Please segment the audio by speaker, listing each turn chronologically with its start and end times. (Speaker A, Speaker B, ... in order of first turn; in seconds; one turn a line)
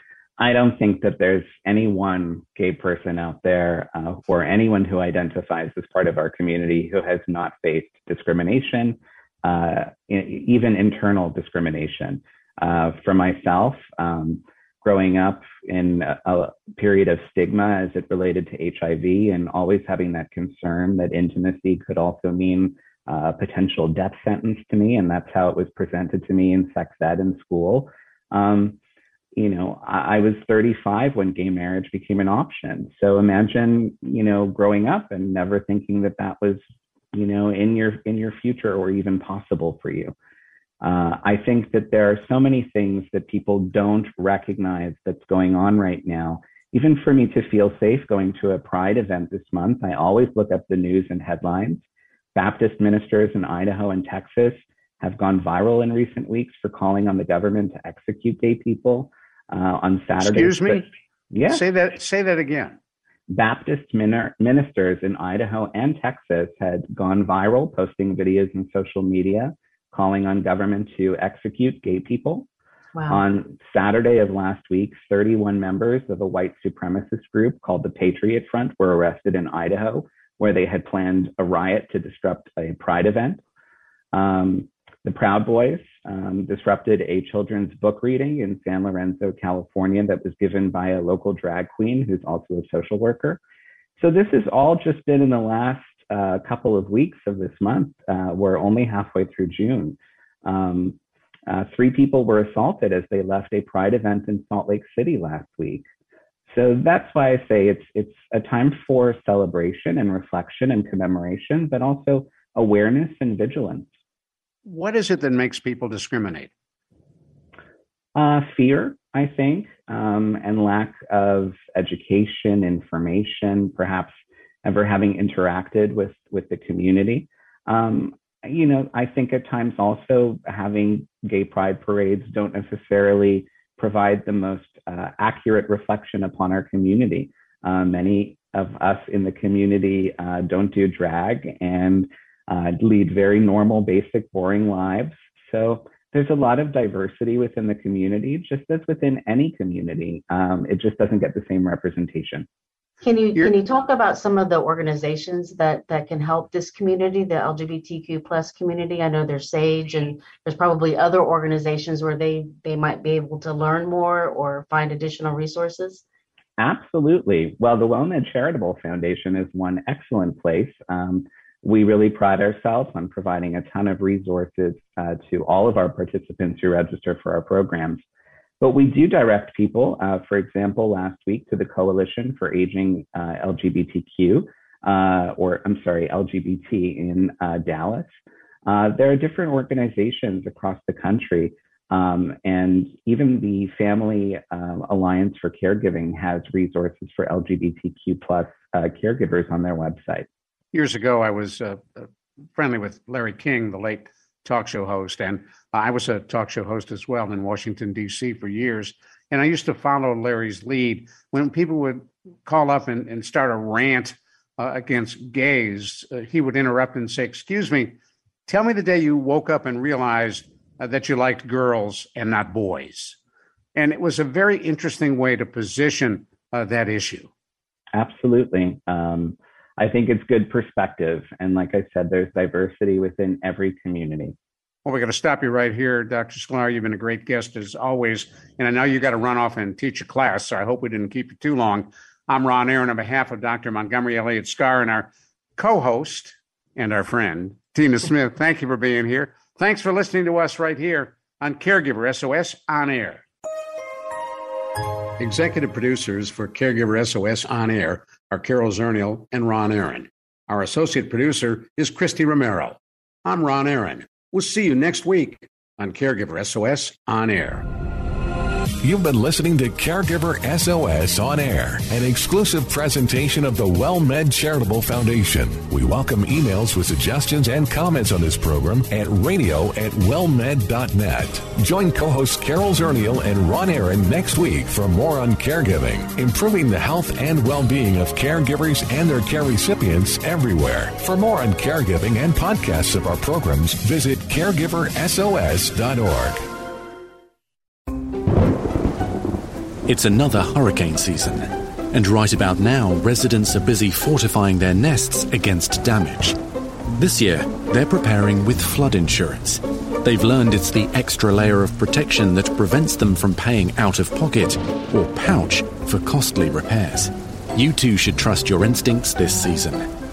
Speaker A: 0.4-28.8
Speaker A: 29.4-36.6
Speaker A: 37.1-40.1
Speaker A: 40.8-51.8
Speaker A: 52.4-61.6
Speaker B: 60.2-60.9
Speaker B: 61.5-62.8
Speaker A: 63.3-72.5
Speaker C: 73.0-73.2
Speaker A: 73.1-83.4
Speaker A: 84.1-93.4
Speaker A: 94.0-105.8
Speaker A: 106.5-113.9
Speaker B: 114.7-116.5
Speaker A: 118.2-152.5
Speaker C: 153.0-166.0
Speaker A: 166.6-178.0
Speaker A: 178.6-188.1
Speaker A: 188.7-200.3
Speaker B: 200.7-223.2
Speaker B: 223.8-227.3
Speaker A: 227.9-234.3
Speaker B: 234.8-253.2
Speaker B: 255.2-267.6
Speaker D: 268.8-296.4
Speaker E: 299.9-306.4
Speaker E: 307.0-319.9